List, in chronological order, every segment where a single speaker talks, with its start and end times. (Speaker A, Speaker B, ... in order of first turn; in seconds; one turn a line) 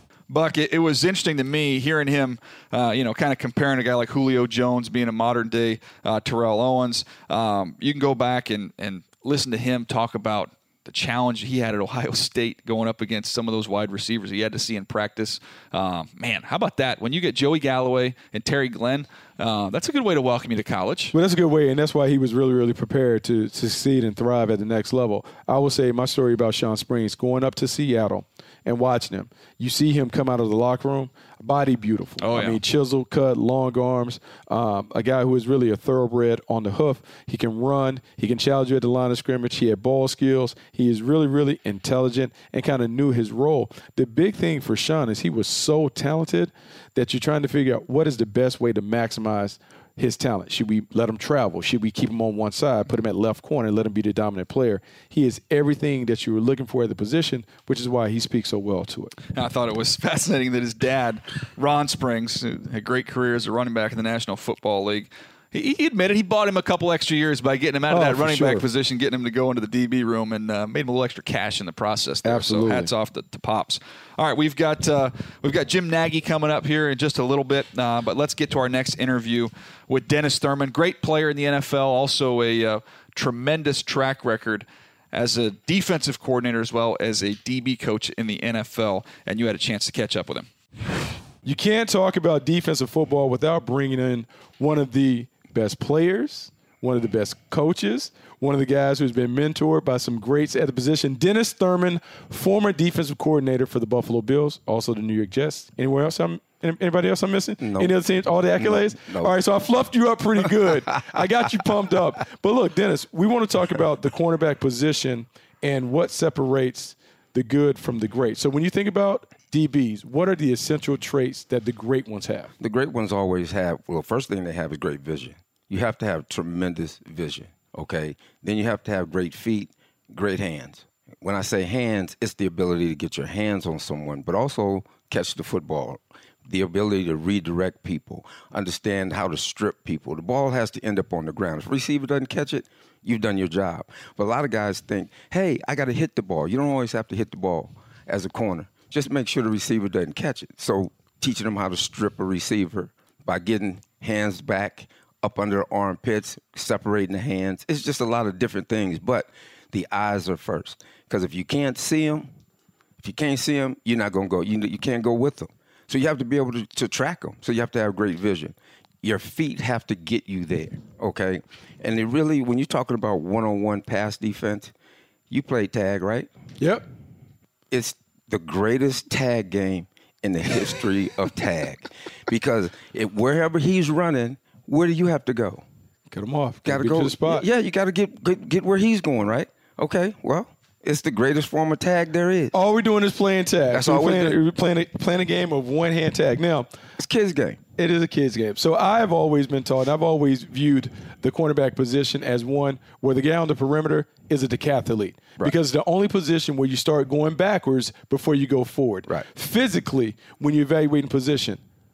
Speaker A: 0.3-21.1
Speaker B: 21.1-59.1
Speaker A: 32.2-32.6
Speaker A: 59.3-90.5
Speaker B: 67.9-68.7
Speaker B: 72.2-72.9
Speaker B: 91.4-122.5
Speaker C: 107.6-107.9
Speaker C: 108.6-109.3
Speaker C: 110.5-111.2
Speaker C: 122.6-162.3
Speaker C: 163.0-174.7
Speaker C: 175.3-176.3
Speaker B: 176.6-176.8
Speaker C: 177.7-185.6
Speaker B: 186.1-187.5
Speaker C: 186.6-192.5
Speaker B: 192.5-196.7
Speaker C: 193.7-194.4
Speaker C: 197.0-197.6
Speaker B: 197.8-211.6